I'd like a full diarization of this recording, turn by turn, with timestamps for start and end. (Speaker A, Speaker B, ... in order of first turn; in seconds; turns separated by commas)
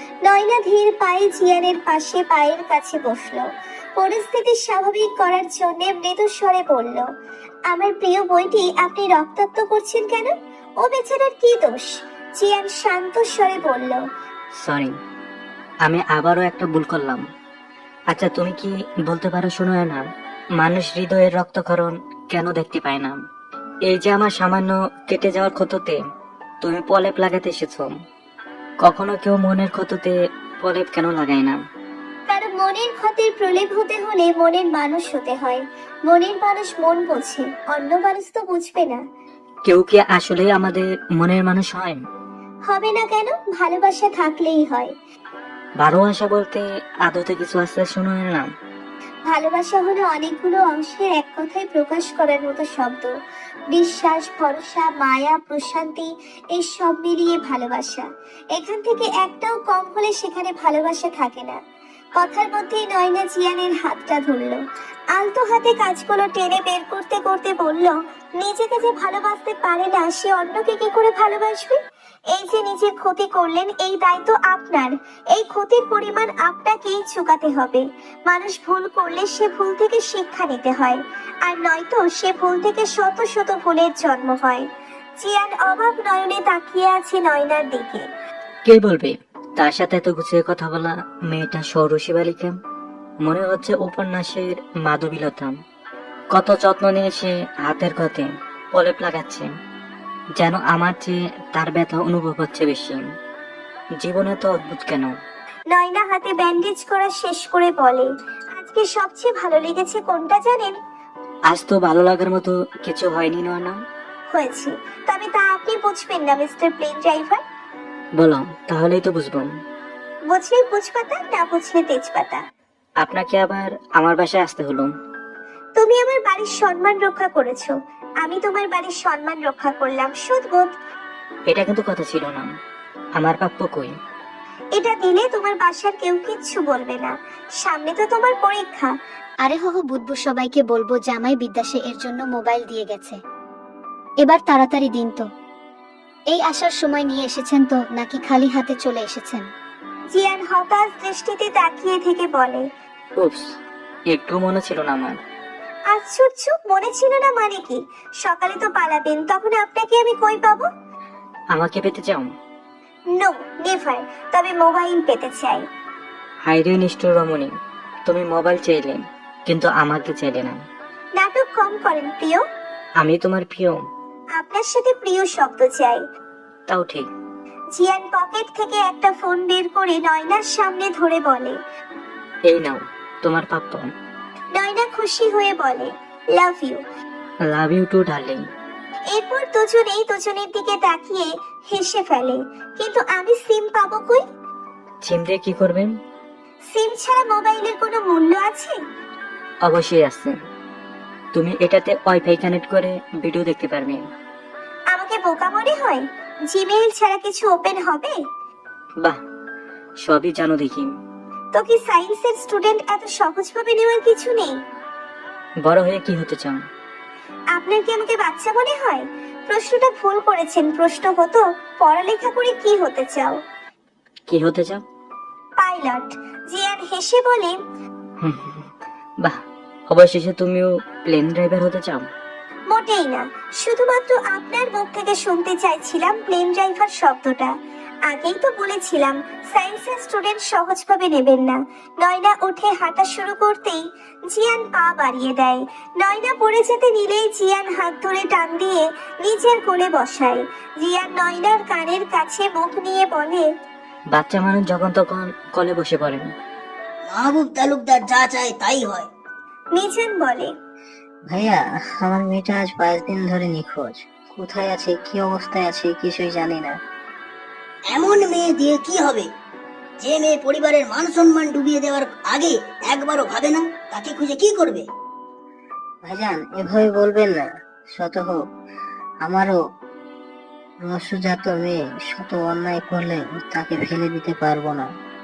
Speaker A: 0.2-7.0, Speaker A: 7.7-14.0, Speaker B: 14.6-14.9, Speaker B: 15.8-17.2, Speaker B: 18.1-20.0, Speaker B: 20.6-23.2, Speaker B: 23.9-26.0, Speaker B: 26.6-28.0, Speaker B: 28.8-31.6, Speaker A: 32.3-39.0, Speaker B: 39.6-42.0, Speaker A: 42.7-44.9, Speaker B: 45.8-48.5, Speaker A: 49.2-53.1, Speaker A: 53.7-61.6, Speaker A: 62.2-64.6, Speaker A: 65.1-71.8, Speaker A: 72.3-84.7, Speaker A: 85.2-88.0, Speaker B: 88.7-92.6, Speaker B: 93.2-95.5, Speaker B: 96.3-99.5, Speaker B: 100.4-103.0, Speaker B: 104.0-105.1, Speaker A: 105.7-110.8, Speaker B: 111.5-113.8, Speaker A: 114.3-117.4, Speaker B: 118.2-119.5, Speaker A: 120.3-122.4, Speaker B: 123.0-124.9, Speaker A: 125.8-130.7, Speaker B: 131.5-132.5, Speaker B: 133.2-133.9, Speaker A: 134.7-138.9, Speaker C: 139.4-143.2, Speaker C: 144.2-145.2, Speaker C: 146.3-149.4, Speaker A: 150.1-152.7, Speaker B: 153.2-153.5, Speaker B: 154.1-155.2, Speaker A: 155.9-160.7, Speaker B: 161.5-162.3, Speaker A: 163.1-165.6, Speaker B: 166.4-167.5, Speaker B: 168.1-170.6, Speaker A: 171.2-172.4, Speaker B: 173.0-173.8, Speaker A: 174.3-176.0, Speaker B: 176.7-177.1, Speaker A: 177.7-181.6, Speaker B: 182.4-183.9, Speaker A: 184.5-186.8, Speaker B: 187.5-188.4, Speaker A: 189.1-194.2, Speaker B: 195.0-195.9, Speaker A: 196.7-198.8, Speaker B: 199.6-200.4, Speaker B: 201.3-204.0, Speaker A: 204.9-208.2, Speaker B: 210.0-210.9, Speaker A: 211.5-214.6, Speaker B: 215.6-216.6, Speaker A: 217.5-223.4, Speaker B: 224.3-224.8, Speaker A: 225.6-227.6, Speaker B: 228.2-232.1, Speaker A: 232.7-237.5, Speaker A: 238.1-253.5, Speaker B: 254.1-256.3, Speaker D: 257.1-259.1, Speaker A: 259.7-260.5, Speaker E: 261.3-266.7, Speaker D: 267.9-269.3, Speaker D: 270.0-274.8, Speaker E: 276.0-278.4, Speaker E: 279.2-279.6, Speaker E: 280.8-284.9